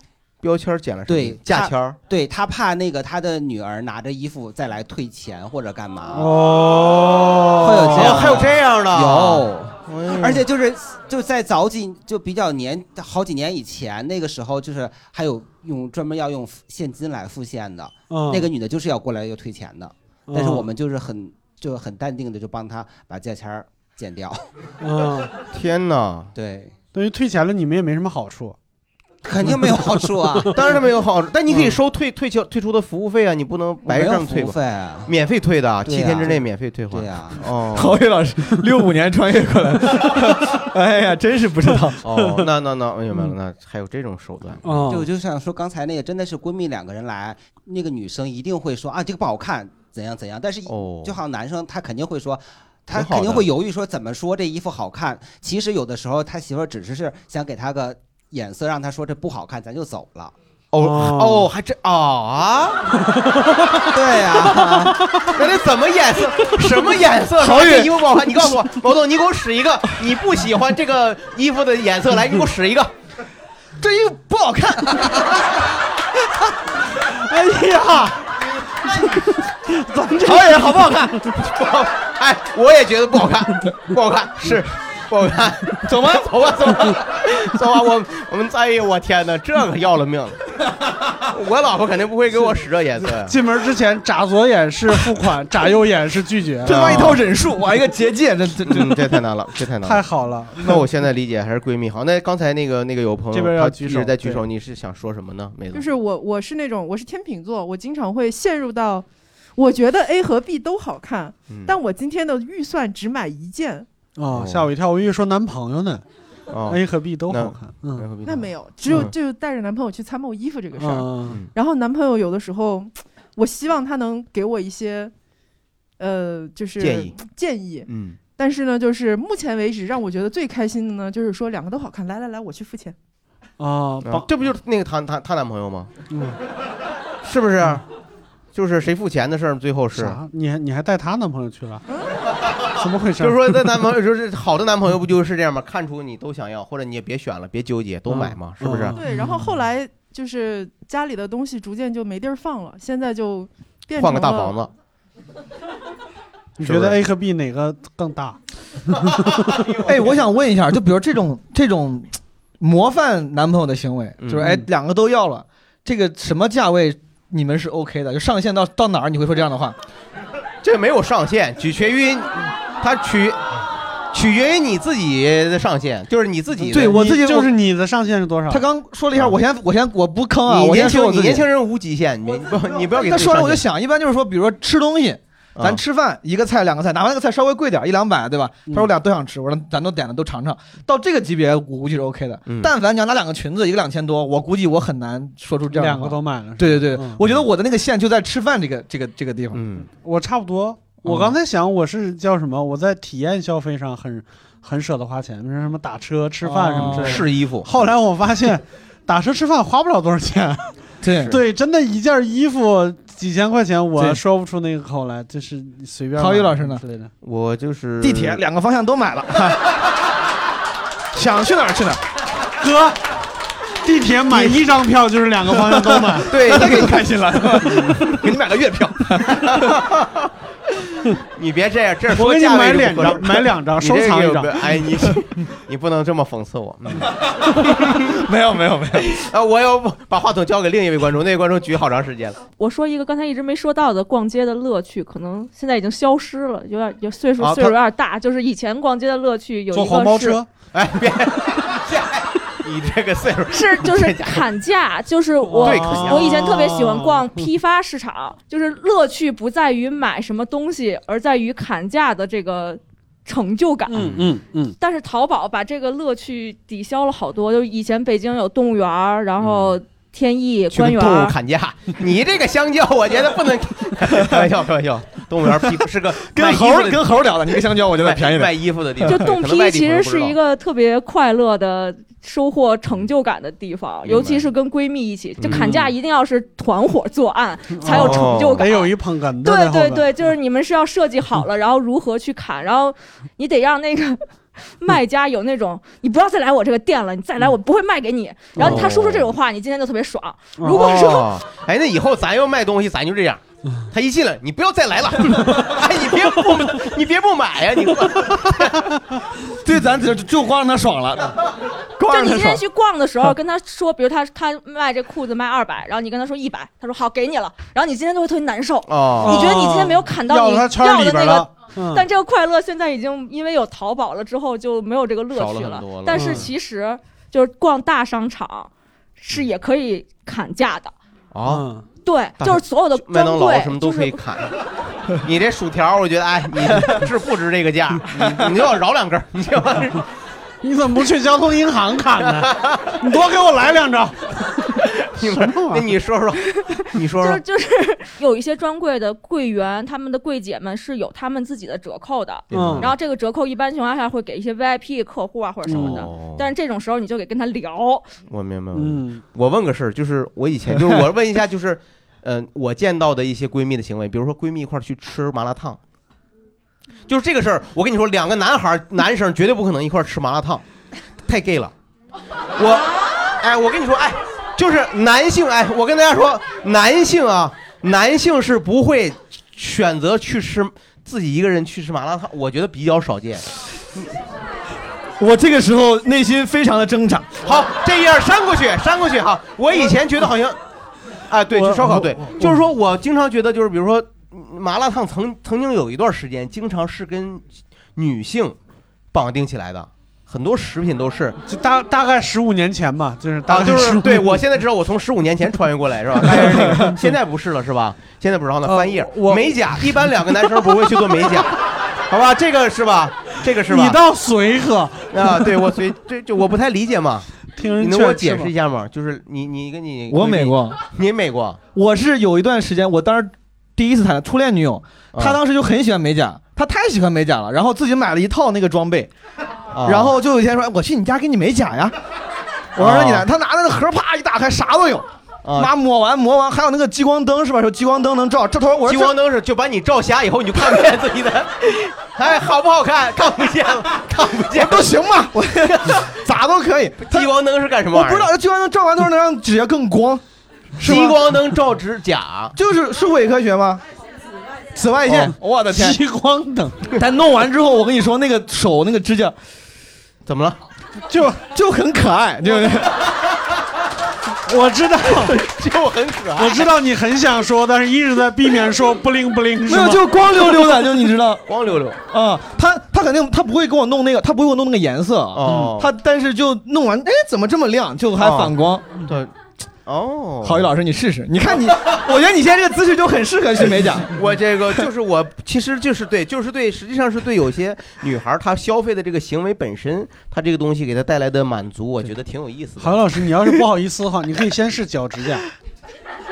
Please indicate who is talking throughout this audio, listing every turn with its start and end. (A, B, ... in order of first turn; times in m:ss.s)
0:00.4-0:02.0 A
0:01.1-0:06.4 B
0:06.1-0:08.3 C
0:07.6-0:24.5 B
0:07.9-0:10.5 A
0:18.1-0:18.5 C
0:20.3-0:20.7 C
0:24.8-0:25.3 C
0:25.5-0:26.3 A
0:26.4-0:26.7 B
0:26.9-0:28.6 C
0:29.2-0:30.6 B
0:29.4-0:30.5 C
0:30.5-0:38.0 A
0:33.9-0:35.1 B
0:35.8-0:37.4 B
0:37.8-0:42.0 D
0:42.0-0:44.6 A
0:44.6-0:45.1 C
0:44.9-1:00.3 B
0:50.7-0:51.2 A
0:52.9-0:53.5 A
1:00.7-1:02.8 A
1:00.8-1:01.5 C
1:03.2-1:03.8 C
1:03.9-1:05.0 B
1:04.7-1:05.3 C
1:05.3-1:12.9 A
1:07.4-1:08.0 D
1:13.8-1:15.4 D
1:17.1-1:18.3 C
1:19.0-1:20.9 C
1:20.2-1:21.2 D
1:21.4-1:30.4 A
1:25.9-1:26.2 D
1:31.2-1:33.4 A
1:33.2-1:37.2 C
1:36.6-1:39.0 D
1:38.7-1:45.9 A
1:39.8-1:40.8 C
1:43.3-1:44.4 C
1:45.7-1:53.9 E
1:51.5-1:51.7 A
1:54.2-1:56.0 C
1:54.3-1:54.7 A
1:56.5-1:59.1 A
1:56.7-1:58.1 C
1:58.2-2:05.1 E
2:00.8-2:01.4 C
2:06.0-2:13.0 E
2:06.8-2:07.2 A
2:07.9-2:08.2 A
2:13.6-2:14.3 C
2:14.0-2:15.9 A
2:16.1-2:16.4 C
2:17.2-2:17.8 A
2:18.5-2:20.2 A
2:19.9-2:21.8 C
2:22.7-2:23.7 C
2:23.2-2:29.0 A
2:28.1-2:29.5 C
2:28.9-2:34.6 E
2:34.0-2:34.7 A
2:36.6-2:38.4 C
2:36.6-2:37.0 A
2:38.9-2:39.3 C
2:39.2-2:40.1 A
2:39.8-2:49.8 D
2:44.2-2:44.5 A
2:44.4-2:44.7 C
2:50.6-2:53.4 A
2:54.1-2:57.0 A
2:56.7-2:57.5 D
2:56.7-2:58.7 C
2:58.5-3:01.5 D
3:00.5-3:03.7 A
3:02.7-3:19.6 D
3:05.6-3:05.8 A
3:12.5-3:12.7 A
3:15.7-3:17.2 C
3:19.5-3:19.9 A
3:19.8-3:30.7 C
3:21.1-3:21.4 D
3:26.4-3:27.2 D
3:26.8-3:27.7 A
3:31.0-3:31.4 D
3:31.2-3:37.1 C
3:34.0-3:34.2 D
3:36.2-3:36.8 D
3:37.2-3:38.4 A
3:38.0-3:39.7 D
3:41.1-3:42.0 D
3:42.6-3:43.0 C
3:43.8-3:46.4 C
3:45.5-3:49.7 D
3:46.2-3:47.1 A
3:47.6-3:48.0 A
3:49.3-3:50.3 A
3:51.1-3:58.2 A
3:52.1-3:54.9 C
3:57.6-3:59.2 D
3:58.9-4:02.4 A
4:02.6-4:10.4 F
4:07.4-4:07.8 A
4:09.7-4:10.5 C
4:10.7-4:14.5 A
4:13.5-4:24.3 F
4:15.4-4:17.5 C
4:15.6-4:16.4 A
4:23.9-4:24.8 C
4:23.9-4:24.3 A
4:24.8-4:31.4 F
4:29.4-4:29.8 A
4:30.7-4:37.1 A
4:36.2-4:39.3 D
4:37.8-4:40.4 A
4:39.1-5:01.3 F
4:44.0-4:44.5 A
4:45.4-4:45.8 A
4:47.7-4:50.1 C
4:47.9-4:48.7 A
4:58.6-4:58.9 C
4:58.6-4:59.3 A
5:00.6-5:01.1 C
5:00.6-5:08.9 A
5:09.6-5:11.4 D
5:12.0-5:12.6 D
5:12.0-5:30.9 F
5:18.9-5:19.4 A
5:19.2-5:22.0 C
5:25.3-5:26.5 A
5:26.1-5:26.5 C
5:31.3-5:31.7 A
5:31.4-5:31.9 C
5:32.0-5:34.2 F
5:32.4-5:34.6 A
5:35.2-5:40.0 A
5:40.6-5:44.7 C
5:42.3-5:43.0 A
5:44.8-5:47.4 A
5:45.2-5:45.9 C
5:46.5-5:58.1 F
5:52.5-5:52.9 C
5:52.5-5:52.9 A
5:55.7-5:56.5 A
5:55.7-5:56.0 C
5:58.3-6:05.8 A
5:58.7-5:59.2 C
6:07.1-6:10.6 A
6:11.2-6:11.7 A
6:12.6-6:23.5 A
6:25.2-6:27.4 D
6:27.4-6:30.6 A
6:31.3-6:38.6 A
6:31.5-6:32.6 C
6:39.1-6:41.4 A
6:41.5-6:44.4 C
6:43.5-6:54.0 A
6:46.2-6:47.1 C
6:48.6-6:50.3 C
6:53.6-6:55.7 C
6:55.1-7:01.6 A
6:57.5-6:58.5 C
7:00.1-7:00.8 D
7:01.8-7:09.1 D
7:05.1-7:05.4 A
7:09.7-7:10.1 A
7:09.8-7:12.0 D
7:12.8-7:19.1 D
7:12.8-7:13.3 A
7:15.4-7:15.7 A
7:18.8-7:25.0 A
7:24.5-7:27.3 D
7:25.6-7:26.1 A
7:27.0-7:28.3 A
7:27.9-7:30.2 D
7:30.8-7:32.6 A
7:30.8-7:31.2 D
7:32.6-7:33.8 D
7:34.7-7:36.0 D
7:35.1-7:35.3 A
7:35.7-7:36.8 C
7:37.0-7:39.4 D
7:40.2-7:40.6 A
7:41.1-7:41.4 C
7:41.4-7:43.0 D
7:44.4-7:45.4 C
7:45.1-7:46.7 A
7:46.4-7:50.1 C
7:49.7-7:51.5 D
7:51.4-7:52.0 A
7:52.1-7:58.9 D
7:55.3-7:55.9 A
7:55.5-7:55.8 C
7:58.2-7:59.3 A
7:59.9-8:00.7 A
8:00.4-8:04.1 D
8:04.0-8:13.0 A
8:12.8-8:15.5 C